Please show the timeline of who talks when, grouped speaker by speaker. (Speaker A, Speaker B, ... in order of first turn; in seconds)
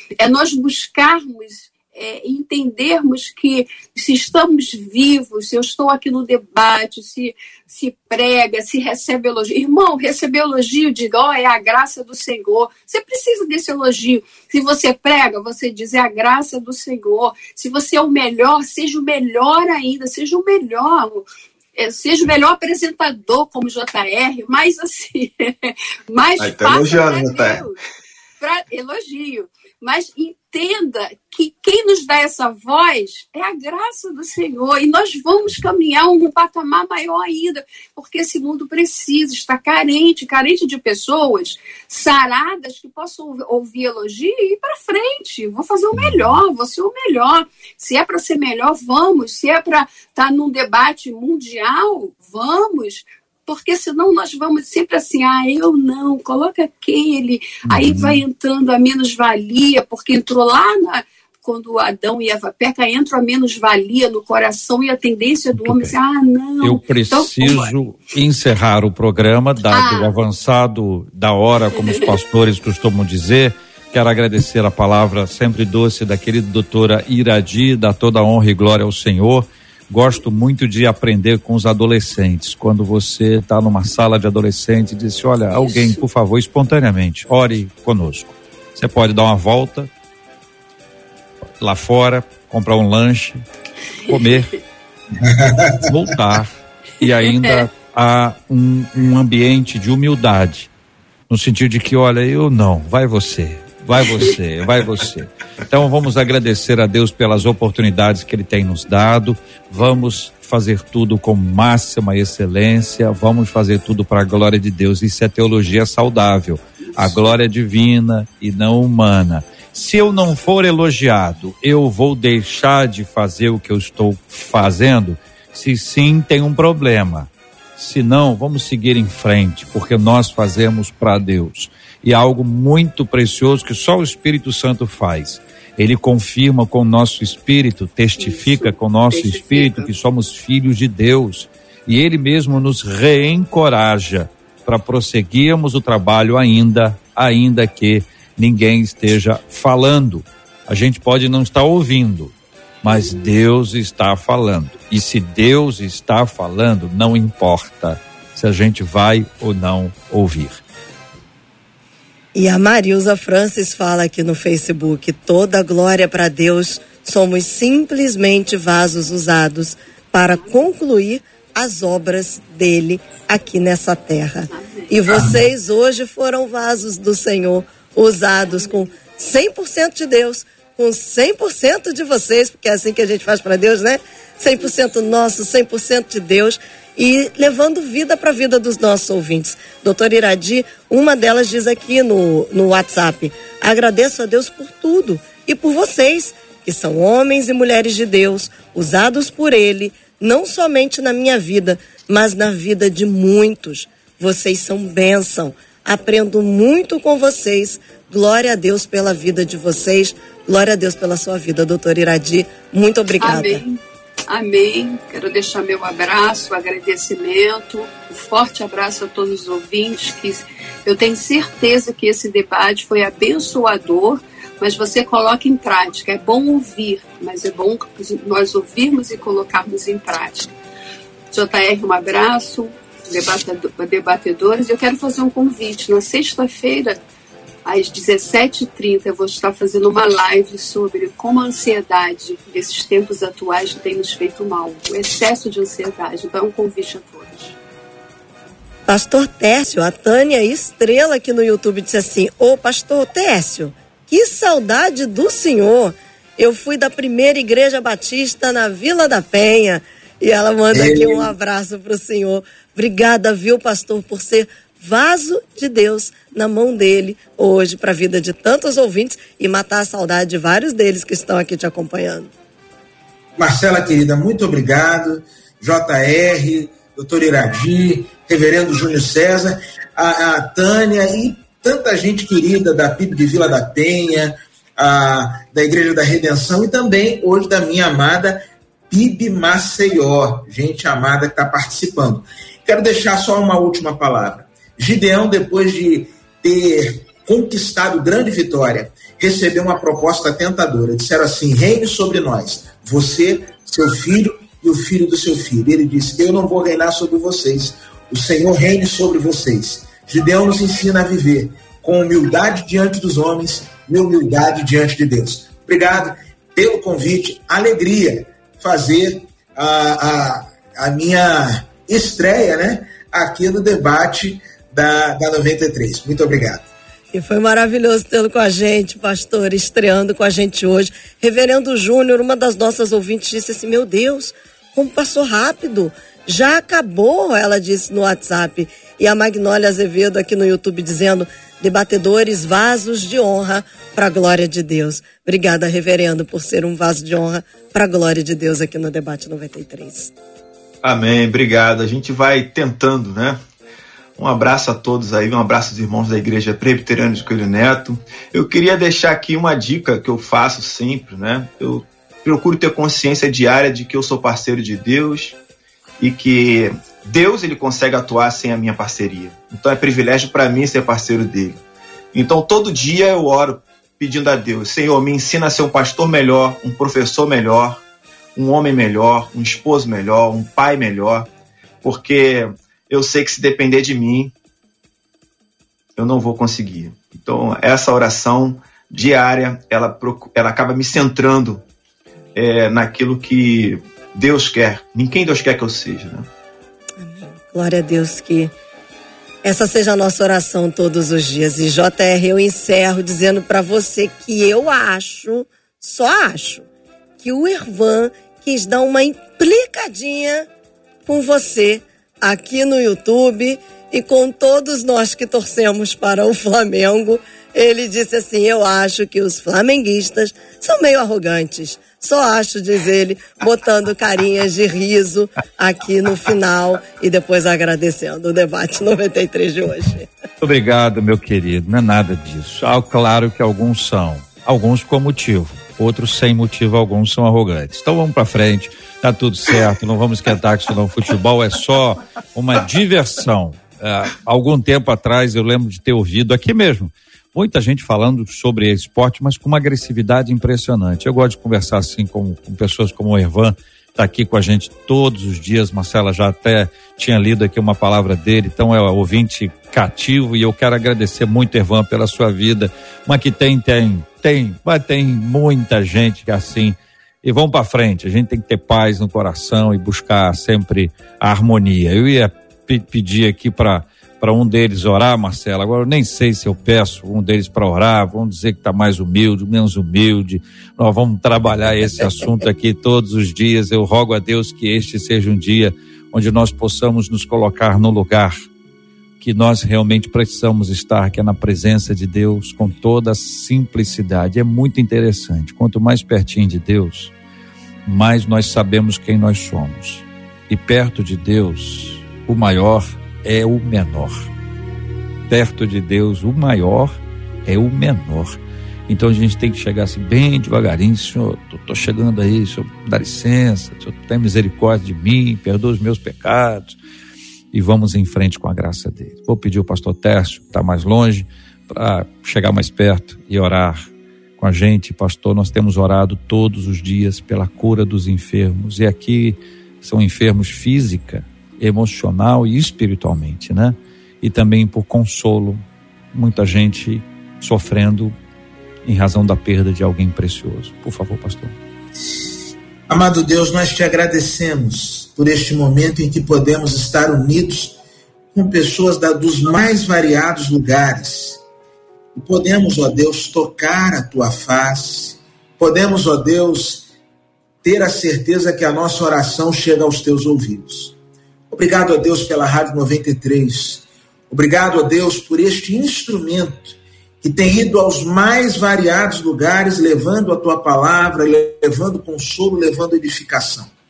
Speaker A: 0.2-21.2, 21.8-27.8, 28.4-67.7, 69.7-70.2, 71.7-72.1, 85.5-86.0, 94.1-94.4, 97.2-97.6, 117.0-117.3, 138.2-139.9, 174.5-175.0, 213.2-230.5, 231.3-237.0, 237.7-247.6
Speaker B: 26.4-27.6, 350.8-353.4, 354.2-365.4, 366.0-371.6, 372.1-377.8, 378.4-381.3, 381.8-384.3, 386.0-391.6, 392.4-396.3
Speaker C: 45.9-46.4, 57.7-58.2, 65.5-66.0, 66.6-89.9, 91.6-93.5, 94.1-94.5, 95.8-100.7, 101.3-160.6, 430.4-488.4, 489.2-497.1, 497.9-504.3, 505.3-516.8, 517.5-538.1, 538.9-541.5
Speaker D: 95.2-95.9, 175.1-175.4, 260.7-261.4, 273.4-326.7, 542.9-547.8, 548.3-551.4, 552.1-556.9, 557.6-561.0, 561.5-573.7
Speaker E: 162.3-213.6, 248.9-272.3, 327.1-350.1, 397.0-398.5, 399.4-406.7, 407.2-410.5, 411.1-430.1, 482.0-482.5